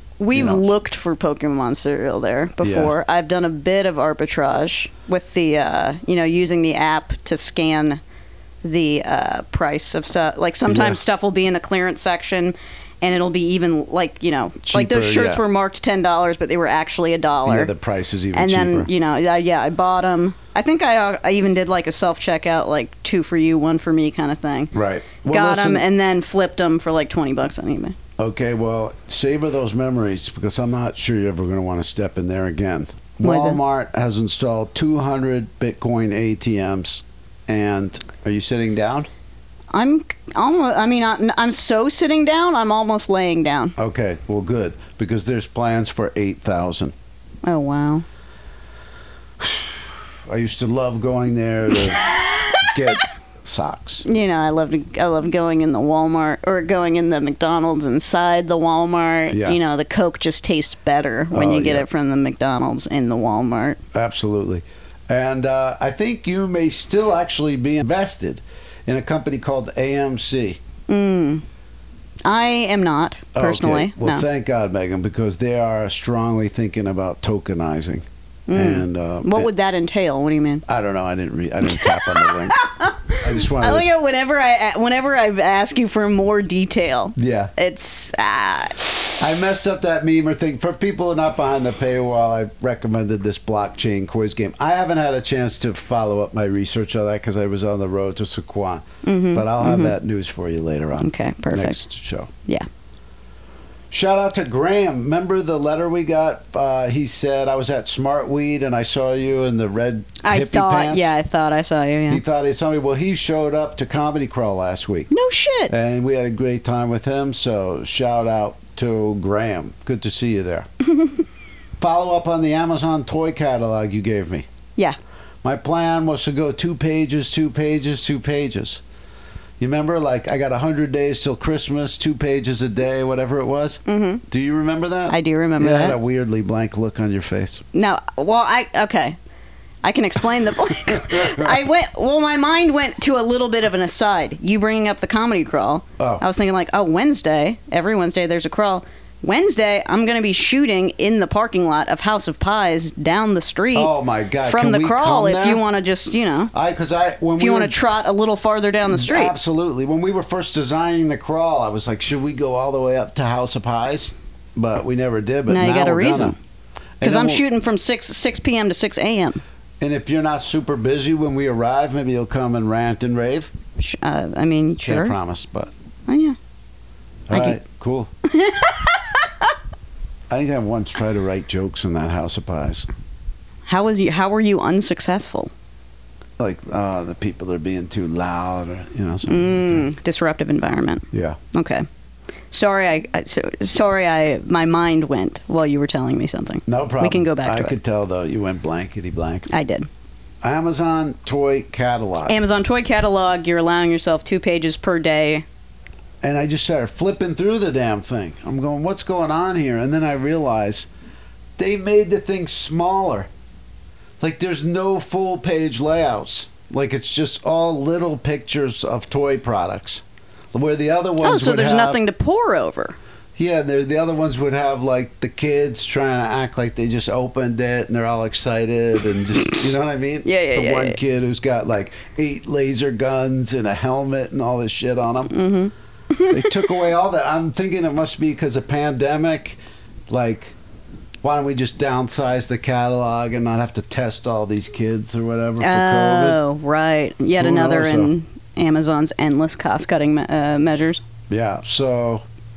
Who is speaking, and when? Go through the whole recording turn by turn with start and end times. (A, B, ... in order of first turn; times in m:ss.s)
0:00.2-0:08.0 A
0:00.3-0:00.6 B
0:02.6-0:02.9 B
0:08.6-0:17.7 A
0:10.7-0:11.0 B
0:14.6-0:15.4 B
0:17.4-0:18.9 B
0:18.3-0:24.7 A
0:24.7-0:25.8 B
0:25.3-0:28.0 A
0:28.2-0:39.1 B
0:33.2-0:33.6 A
0:39.7-0:43.7 A
0:43.8-0:46.9 B
0:47.4-0:48.0 A
0:49.4-0:54.0 B
0:52.0-0:52.6 A
0:54.0-1:03.8 A
0:59.3-0:59.6 B
1:01.3-1:01.8 B
1:03.9-1:10.6 B
1:10.9-1:11.4 A
1:12.2-1:14.2 A
1:13.3-1:19.5 B
1:18.5-1:20.6 A
1:20.6-1:22.6 B
1:21.6-1:29.2 A
1:23.1-1:23.9 B
1:27.2-1:27.5 B
1:29.2-1:42.3 B
1:39.0-1:39.9 A
1:41.0-1:41.8 A
1:43.9-1:51.1 B
1:50.2-1:52.2 A
1:52.1-1:55.1 B
1:55.1-1:55.7 A
1:55.7-2:00.7 B
2:01.8-2:04.4 B
2:05.4-2:08.8 B
2:09.6-2:17.6 B
2:13.8-2:14.2 A
2:15.1-2:16.0 A
2:17.7-2:19.2 A
2:19.8-2:33.9 A
2:20.9-2:21.6 B
2:33.7-2:35.6 B
2:34.4-2:36.5 A
2:36.5-2:37.8 B
2:37.4-2:39.3 A
2:38.9-2:46.4 B
2:45.5-2:46.4 A
2:47.0-2:47.4 B
2:47.0-2:49.4 A
2:49.8-2:53.5 B
2:53.8-2:55.1 A
2:54.8-2:55.7 B
2:56.1-2:56.4 A
2:57.3-2:58.1 B
2:57.3-2:57.6 A
2:58.2-2:59.5 A
3:00.3-3:02.9 B
3:03.7-3:05.5 A
3:06.4-3:09.9 B
3:09.3-3:11.8 A
3:11.1-3:11.4 B
3:12.5-3:17.8 A
3:16.7-3:19.5 B
3:19.5-3:19.9 A
3:20.4-3:22.4 B
3:22.2-3:25.4 A
3:26.2-3:30.9 B
3:31.6-3:33.3 B
3:34.2-3:42.0 B
3:41.2-3:43.0 A
3:43.4-3:55.3 B
3:50.2-3:51.0 A
3:55.3-3:56.7 A
3:56.3-4:00.6 B
4:01.2-4:06.4 B
4:05.6-4:11.0 A
4:07.4-4:08.1 B
4:11.3-4:12.2 B